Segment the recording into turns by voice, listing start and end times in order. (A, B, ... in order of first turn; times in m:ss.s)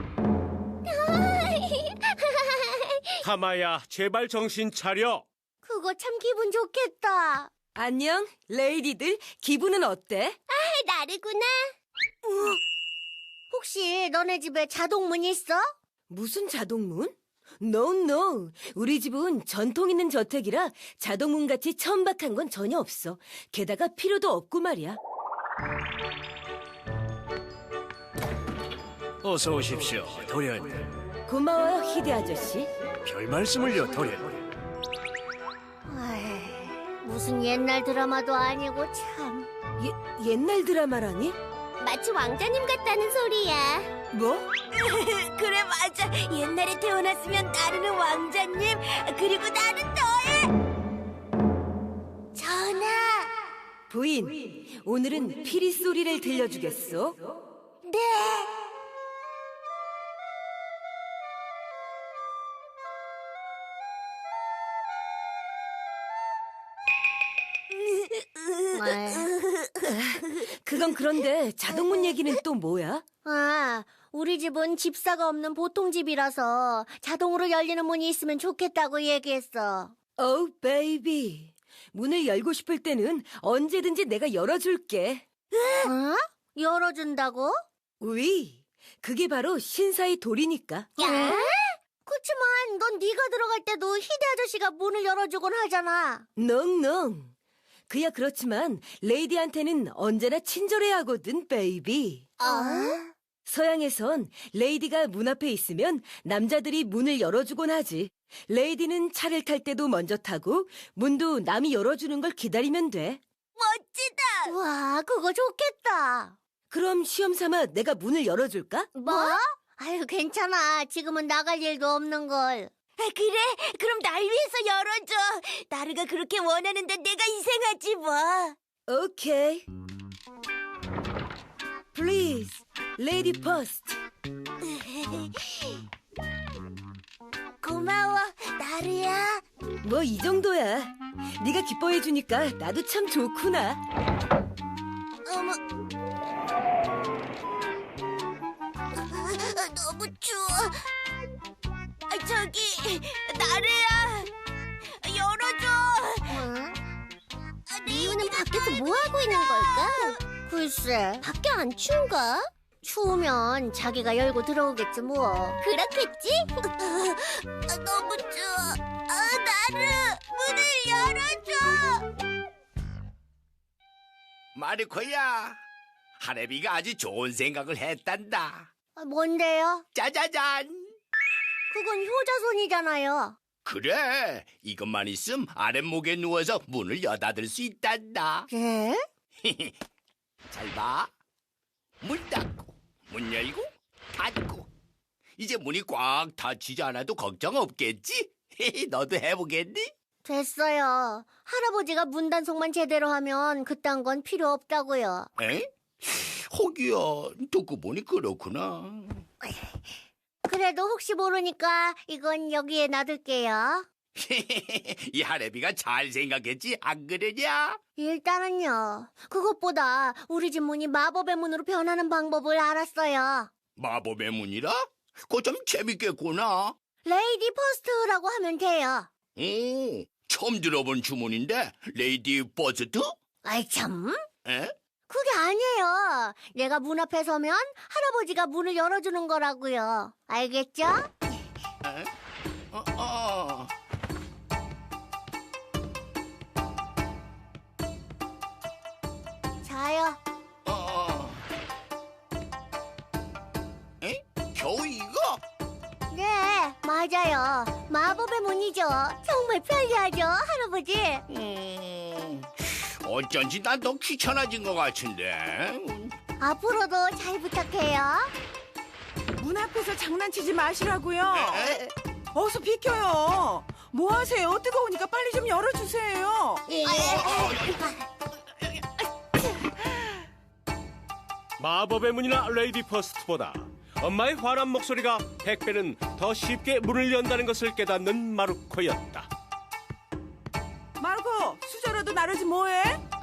0:00.8-0:03.2 A
0:03.2-0:05.2 B
0:05.6-0:07.5 C
0:07.8-0:10.4 D
0:10.5-0:11.7 A
0:13.5-0:15.7 C
0:16.1-0:25.0 D
0:29.2-0:30.8 E
0:31.3-0:32.7 D
0:33.0-0:34.3 E
0:35.9-0:39.5 C
0:39.8-0:41.4 D
0:41.8-0:43.9 A
0:44.1-0:44.7 D
0:45.3-0:45.7 D
0:49.2-0:50.3 A
0:52.4-0:53.3 C
0:53.9-0:57.2 D
0:57.9-0:58.7 C
1:08.0-1:09.7 A
1:08.7-1:09.3 C
1:09.8-1:13.0 D
1:13.2-1:20.0 C
1:20.2-1:25.3 D
1:25.5-1:25.9 A
1:25.8-1:27.6 C
1:28.0-1:31.4 D
1:31.0-1:31.5 A
1:31.0-1:36.3 C
1:36.4-1:37.3 D
1:37.9-1:42.3 D
1:42.4-1:43.1 C
1:42.4-1:43.0 A
1:43.4-1:53.2 D
1:53.6-1:54.5 A
1:54.4-1:56.4 C
1:56.7-1:58.9 D
1:59.0-1:59.4 A
1:59.1-2:02.7 C
2:03.0-2:08.6 A
2:08.9-2:09.6 D
2:11.9-2:14.0 D
2:17.6-2:19.4 C
2:19.8-2:23.8 D
2:25.3-2:25.6 C
2:29.3-2:30.7 A
2:30.0-2:30.3 C
2:32.1-2:34.3 A
2:34.9-2:36.4 A
2:36.3-2:36.8 C
2:37.7-2:40.2 A
2:37.9-2:41.3 C
2:41.2-2:42.5 A
2:42.8-2:45.6 C
2:45.6-2:52.1 A
2:54.6-2:55.6 F
2:56.2-2:58.7 F
2:59.0-2:59.8 C
2:59.9-3:00.9 F
3:01.7-3:03.4 C
3:03.6-3:08.5 F
3:08.5-3:09.0 C
3:09.4-3:09.8 F
3:10.5-3:11.1 F
3:12.0-3:14.7 F
3:15.4-3:19.9 F
3:20.2-3:25.3 C
3:25.4-3:29.2 F
3:29.4-3:29.8 C
3:30.5-3:33.9 C
3:34.2-3:37.8 F
3:38.0-3:43.5 C
3:43.8-3:46.8 F
3:47.0-3:49.1 C
3:49.4-3:53.1 F
3:53.4-3:54.2 C
3:54.4-3:54.7 F
3:55.1-4:01.2 C
4:01.8-4:02.1 F
4:02.7-4:03.7 F
4:09.6-4:10.2 C
4:10.6-4:11.4 F
4:14.0-4:15.4 F
4:16.1-4:21.2 C
4:21.3-4:26.1 F
4:26.4-4:28.3 C
4:29.4-4:31.8 G
4:31.3-4:31.9 F
4:32.3-4:36.6 G
4:36.7-4:37.9 F
4:36.8-4:38.0 C
4:41.6-4:49.3 B
4:51.0-4:53.0 G